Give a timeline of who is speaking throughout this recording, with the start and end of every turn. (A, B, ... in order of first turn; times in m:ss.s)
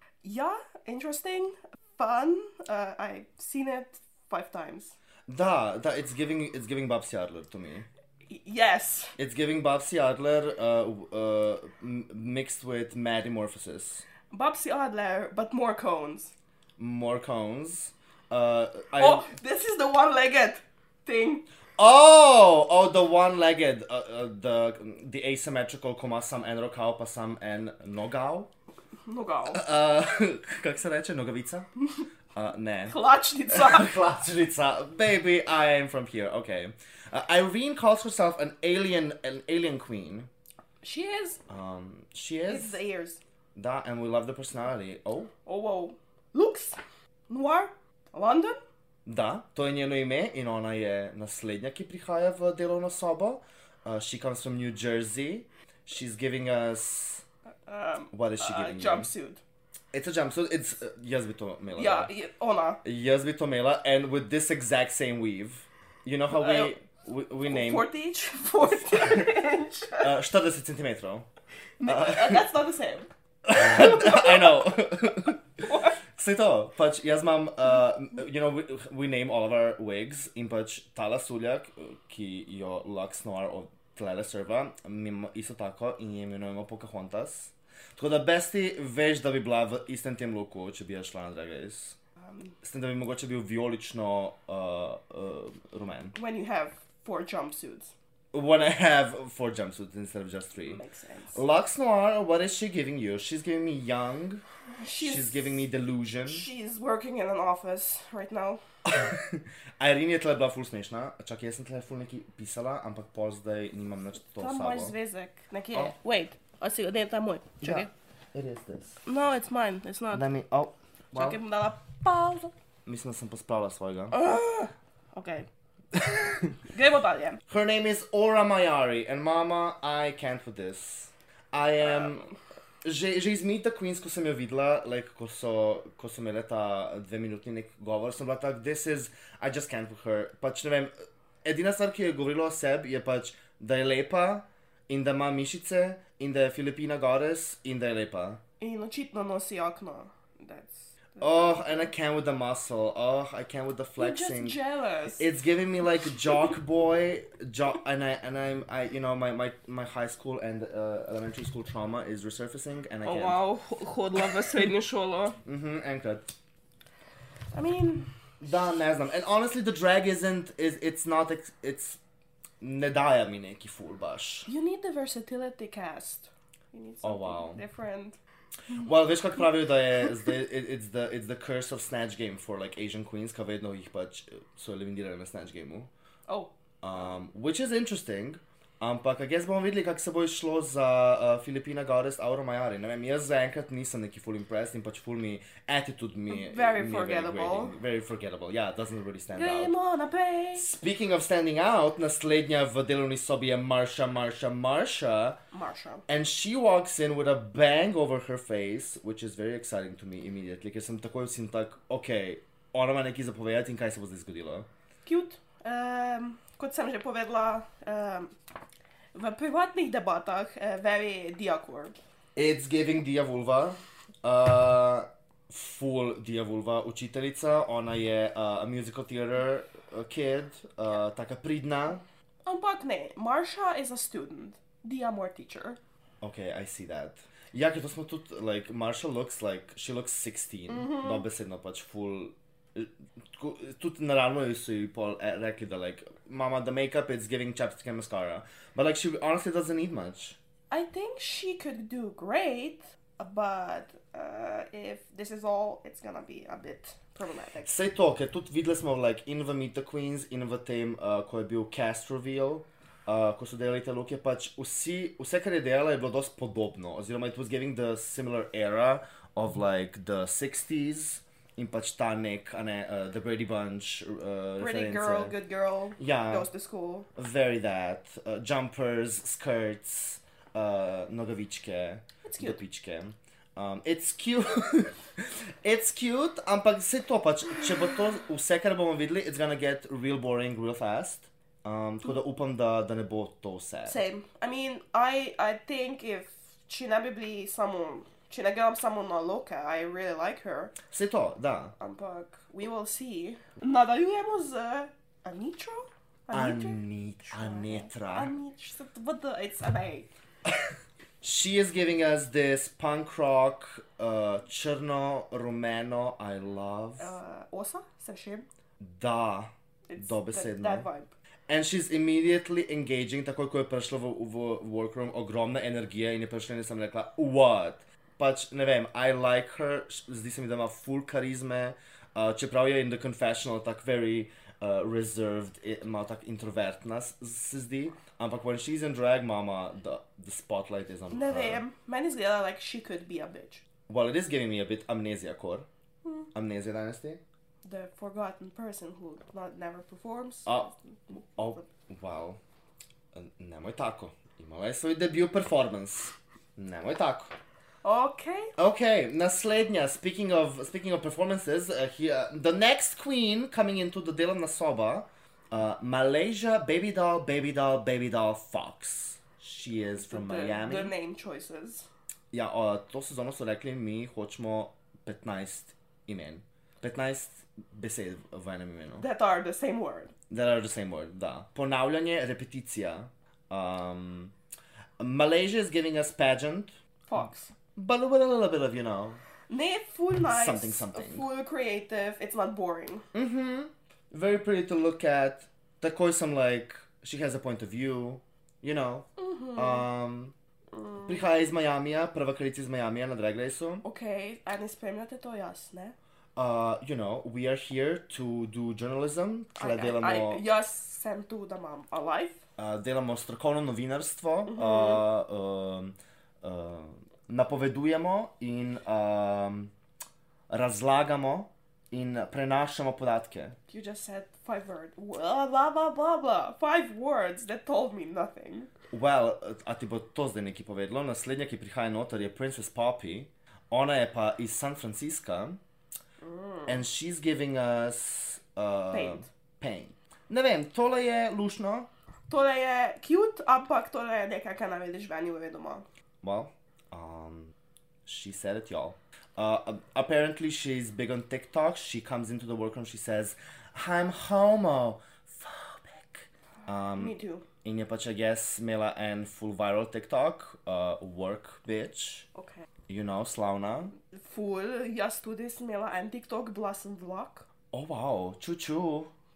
0:00.2-0:05.0 A
0:05.3-0:07.9 B
0:08.3-0:09.2 A
0:09.2-0:14.0 B
0:14.3-0:16.3 A
0:16.8-0:19.3 B
0:19.0-0:21.4 A
0:21.8-0:28.5 B
0:29.1-0:29.6 A
0:29.5-0:31.7 B
0:32.4-0:40.3 B
0:32.9-0:33.9 A
0:40.8-0:41.4 A
0:41.5-0:42.8 B
0:42.5-0:43.2 A
0:43.6-0:45.3 B
0:45.5-0:46.8 A
0:47.3-0:48.6 A
0:49.1-0:57.2 B
0:57.7-0:59.4 A
0:58.1-0:59.1 B
0:59.9-1:02.1 B
1:01.7-1:02.8 A
1:02.8-1:07.9 B
1:06.3-1:06.7 A
1:07.5-1:10.1 A
1:08.9-1:09.3 B
1:10.0-1:11.3 B
1:11.8-1:14.6 A
1:11.8-1:12.4 B
1:13.5-1:32.0 B
1:15.7-1:15.9 A
1:32.6-1:36.2 B
1:36.1-1:37.9 A
1:38.3-1:40.8 B
1:40.6-1:41.4 A
1:41.3-1:44.4 B
1:44.8-1:45.6 A
1:45.0-1:46.5 B
1:46.3-1:48.6 A
1:48.8-1:54.9 B
1:54.4-1:57.9 A
1:57.6-1:59.0 B
1:59.1-2:00.2 A
2:00.1-2:01.4 B
2:01.2-2:02.5 A
2:02.9-2:04.2 B
2:04.1-2:05.5 A
2:06.0-2:06.5 B
2:06.7-2:07.4 A
2:07.5-2:12.3 B
2:12.8-2:20.9 B
2:21.4-2:28.4 B
2:28.6-2:31.9 A
2:31.2-2:34.6 B
2:34.0-2:35.3 A
2:35.2-2:43.4 B
2:43.0-2:45.4 A
2:45.4-2:46.3 B
2:47.5-2:48.1 A
2:48.4-2:52.0 B
2:52.6-2:54.5 B
2:54.5-2:58.2 A
2:57.0-2:57.6 B
2:58.7-3:05.9 B
3:06.8-3:19.7 B
3:16.3-3:17.8 A
3:19.3-3:20.7 A
3:20.6-3:25.4 B
3:25.5-3:26.0 A
3:26.1-3:34.7 B
3:35.1-3:38.3 A
3:39.1-3:42.0 A
3:42.4-3:52.0 B
3:52.5-3:55.8 A
3:56.2-4:10.4 B
4:00.7-4:01.2 A
4:10.7-4:17.7 A
4:17.6-4:35.4 B
4:34.6-4:37.1 A
4:36.0-4:36.5 B
4:37.2-4:54.0 B
4:42.2-4:42.6 A
4:53.9-5:00.8 A
5:00.9-5:01.7 B
5:01.8-5:10.1 A
5:06.3-5:08.3 B
5:11.2-5:17.2 B
5:17.0-5:18.5 A
5:18.8-5:20.9 B
5:19.9-5:21.1 A
5:21.5-5:41.6 B
5:41.1-5:43.6 A
5:43.9-5:45.7 B
5:46.3-5:47.2 B
5:47.6-5:51.6 A
5:50.5-5:50.7 B
5:51.4-5:52.4 B
5:53.1-5:57.3 B
5:57.8-5:58.5 A
5:58.6-6:10.9 B
6:10.1-6:11.9 A
6:12.3-6:19.1 B
6:19.0-6:20.1 A
6:20.3-6:24.3 B
6:25.0-6:26.8 B
6:27.1-6:27.5 A
6:27.8-6:29.2 B
6:29.5-6:33.1 A
6:30.3-6:31.2 B
6:33.1-6:40.3 B
6:39.2-6:39.9 A
6:40.7-6:41.1 A
6:41.0-6:43.8 B
6:43.8-6:46.0 A
6:46.4-6:50.4 B
6:49.6-6:52.4 A
6:52.6-6:59.7 B
7:00.5-7:03.6 B
7:03.7-7:08.7 A
7:08.9-7:15.6 B
7:16.2-7:16.8 A
7:16.7-7:21.9 B
7:18.9-7:19.3 A
7:22.3-7:25.9 A
7:26.2-7:27.5 B
7:28.1-7:42.3 B
7:36.7-7:37.4 A
7:42.4-7:42.7 A
7:42.9-7:44.0 B
7:44.1-7:47.5 A
7:47.7-7:49.1 B